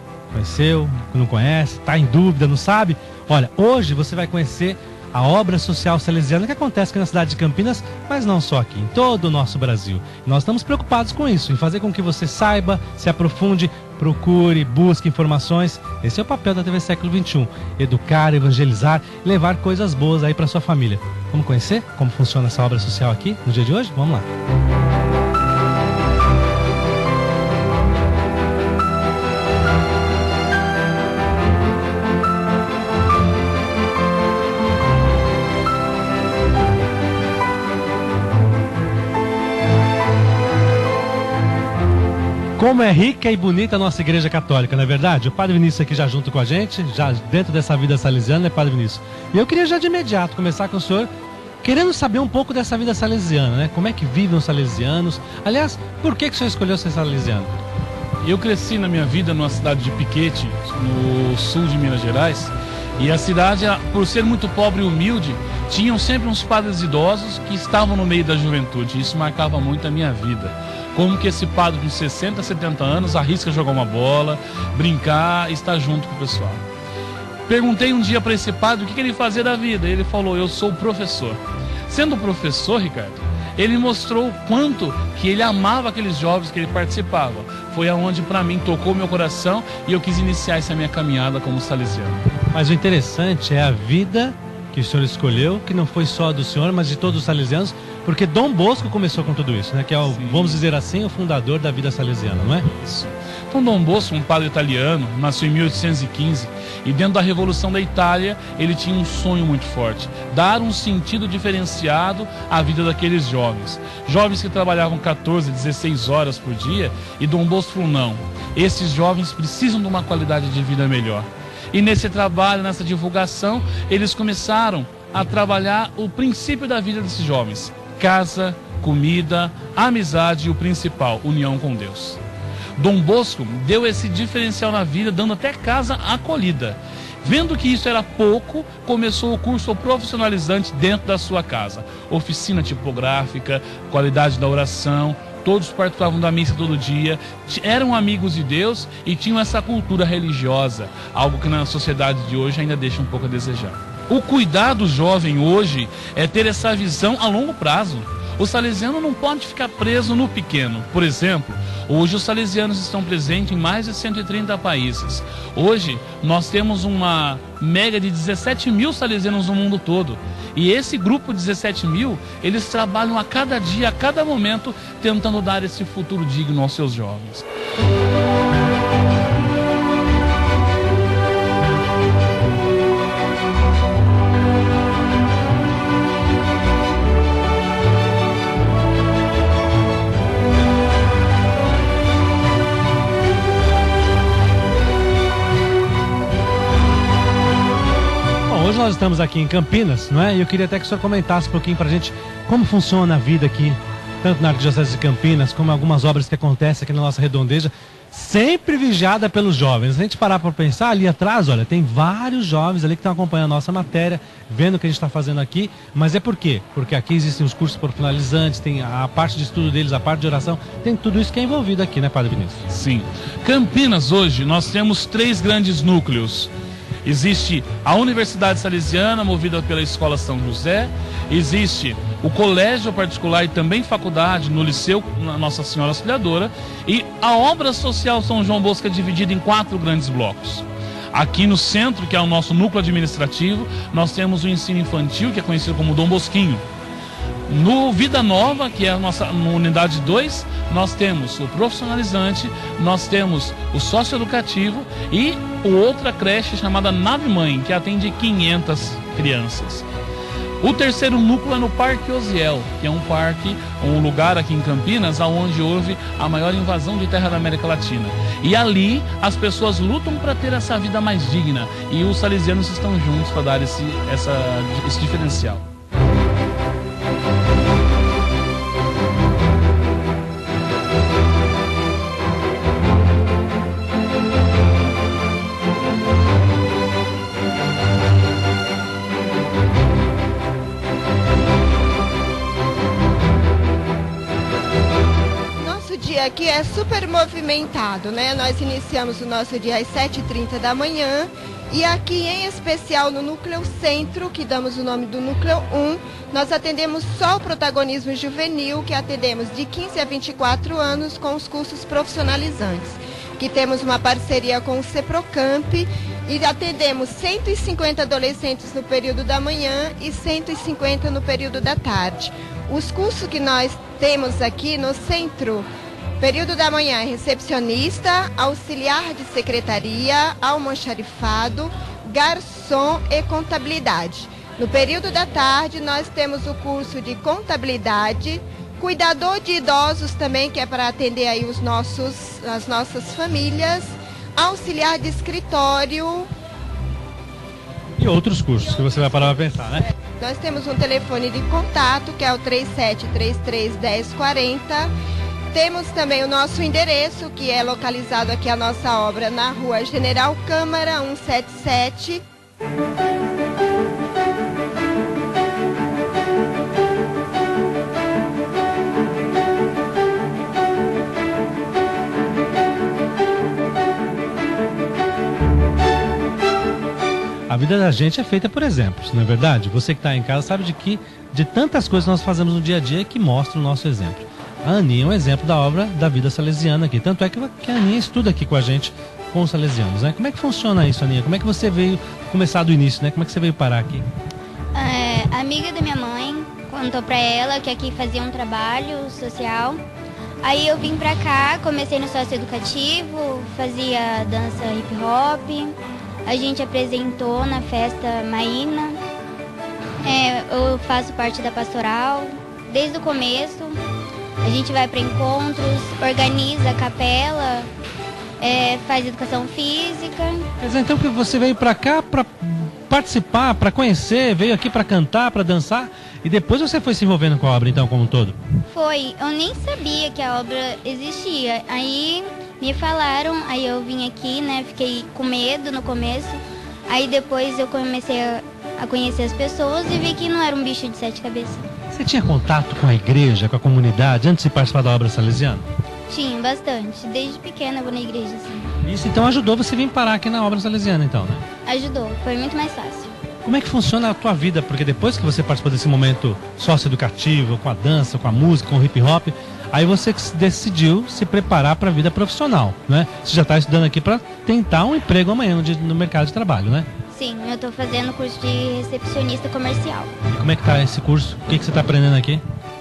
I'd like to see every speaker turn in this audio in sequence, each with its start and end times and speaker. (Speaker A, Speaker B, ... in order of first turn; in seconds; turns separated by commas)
Speaker A: 0.3-24.2, Speaker A: 42.6-51.1, Speaker A: 51.6-57.5, Speaker B: 58.2-76.6, Speaker B: 77.5-92.2, Speaker A: 92.5-102.7, Speaker B: 100.1-100.6, Speaker B: 102.8-132.2, Speaker B: 132.8-177.5, Speaker A: 198.5-222.6, Speaker B: 222.7-226.5, Speaker B: 227.0-246.6, Speaker B: 247.5-259.9, Speaker B: 260.6-275.6, Speaker C: 295.6-325.7, Speaker C: 326.2-346.3, Speaker A: 348.0-349.9, Speaker C: 350.2-354.9, Speaker C: 355.5-362.2, Speaker A: 377.5-394.0, Speaker D: 394.7-399.8, Speaker D: 400.4-405.7, Speaker D: 406.2-409.0, Speaker D: 410.0-413.8, Speaker D: 414.4-417.7, Speaker D: 418.4-420.4, Speaker A: 420.6-428.4, Speaker D: 428.7-441.6, Speaker A: 441.9-445.6, Speaker D: 446.1-448.7, Speaker A: 448.8-451.4, Speaker D: 451.6-453.1, Speaker A: 453.4-466.9, Speaker D: 467.1-470.1, Speaker A: 470.3-472.4